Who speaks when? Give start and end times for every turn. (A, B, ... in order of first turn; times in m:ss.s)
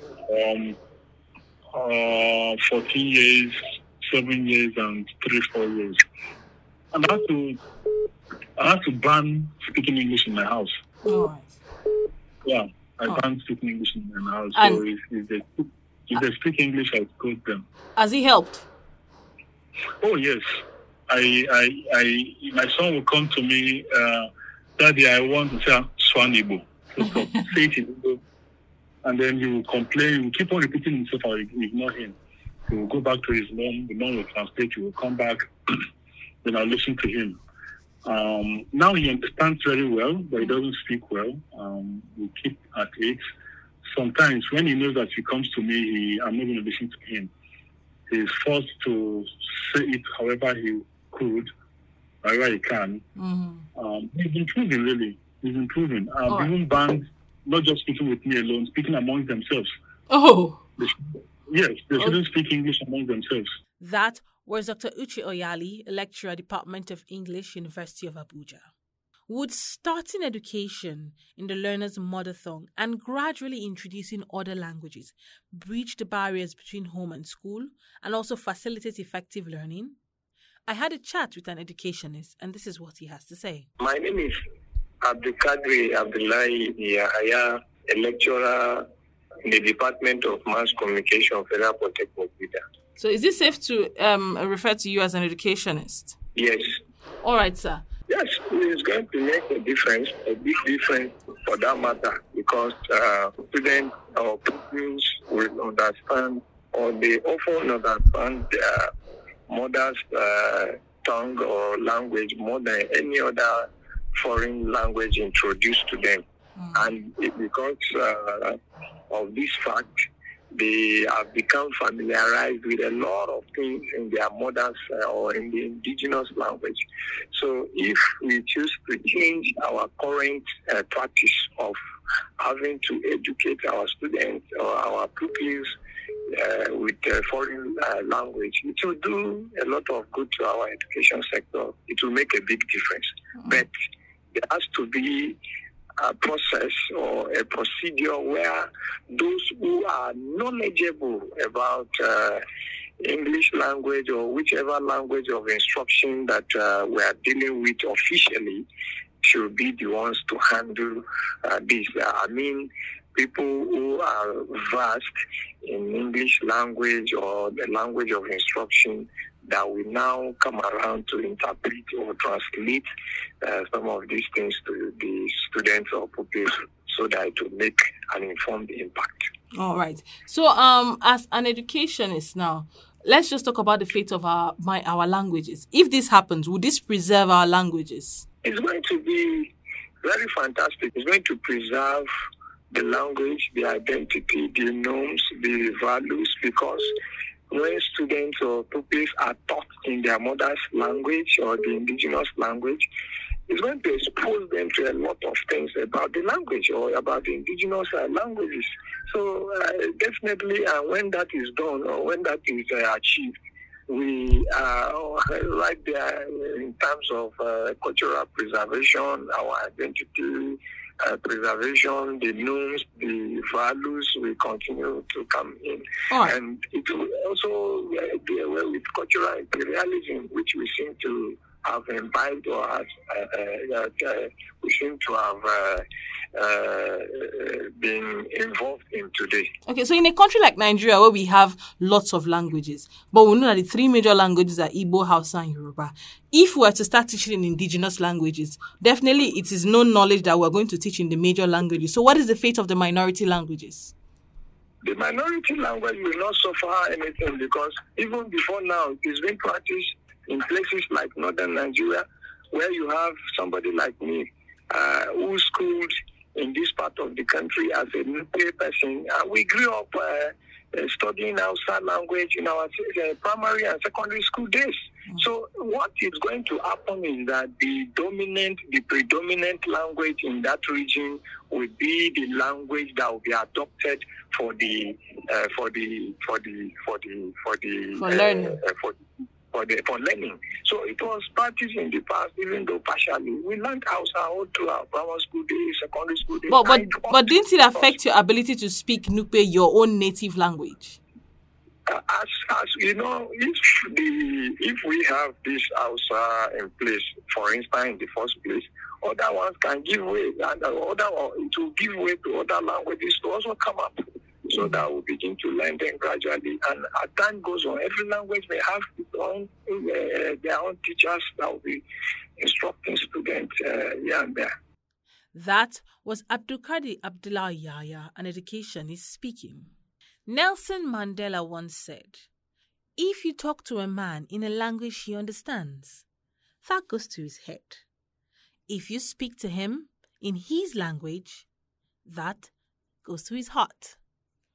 0:00.3-0:00.8 A
0:01.7-0:06.0 A
0:06.9-0:07.6 A
0:08.6-0:10.7 A
0:11.0-0:11.6 B
0:12.4-0:17.6 A
0:14.5-0:14.8 B
0:18.0-0:18.6 B
0:20.0-0:20.4 A
0:21.1-0:28.2 A
0:29.0-0:32.2 A
0:32.7-0:35.4 A
0:36.4-0:37.4 A
0:38.0-0:43.2 A
0:43.9-0:47.3 A
0:48.1-0:51.5 A
0:52.2-0:53.0 A
0:53.2-0:53.6 B
0:53.7-0:59.7 A
0:56.3-0:56.5 B
1:00.1-1:00.6 B
1:00.8-1:03.5 A
1:03.8-1:08.7 B
1:09.3-1:20.0 B
1:20.7-1:23.7 B
1:23.8-1:24.4 C
1:25.0-1:28.8 C
1:29.4-1:32.6 C
1:33.0-1:36.2 B
1:36.4-1:36.6 C
1:37.2-1:37.8 B
1:38.1-1:48.9 C
1:49.5-1:56.2 C
1:56.6-1:56.9 B
1:56.7-1:58.6 C
1:59.1-1:59.9 C
2:00.5-2:06.8 C
2:07.3-2:11.8 C
2:12.4-2:15.7 C
2:16.3-2:23.7 C
2:24.4-2:25.4 C
2:26.0-2:32.4 C
2:33.0-2:38.6 C
2:39.2-2:45.1 C
2:45.6-2:52.9 C
2:53.4-2:59.3 C
2:59.6-3:08.2 B
3:08.4-3:09.5 C
3:10.0-3:12.1 C
3:12.7-3:16.9 C
3:17.5-3:22.8 C
3:23.5-3:33.3 C
3:33.9-3:55.8 C
3:46.1-3:46.4 B
3:56.4-3:59.5 C
3:59.6-4:13.9 B
4:14.8-4:49.0 C
4:48.0-4:48.6 B
4:49.5-4:57.9 C
4:56.5-5:01.0 B
5:01.9-5:21.8 C
5:22.4-5:24.5 C
5:25.3-5:29.7 B
5:30.3-5:32.3 B
5:33.0-5:36.0 B
5:36.6-5:37.8 B
5:38.7-5:41.5 B
5:42.0-5:42.5 B
5:43.0-5:44.0 B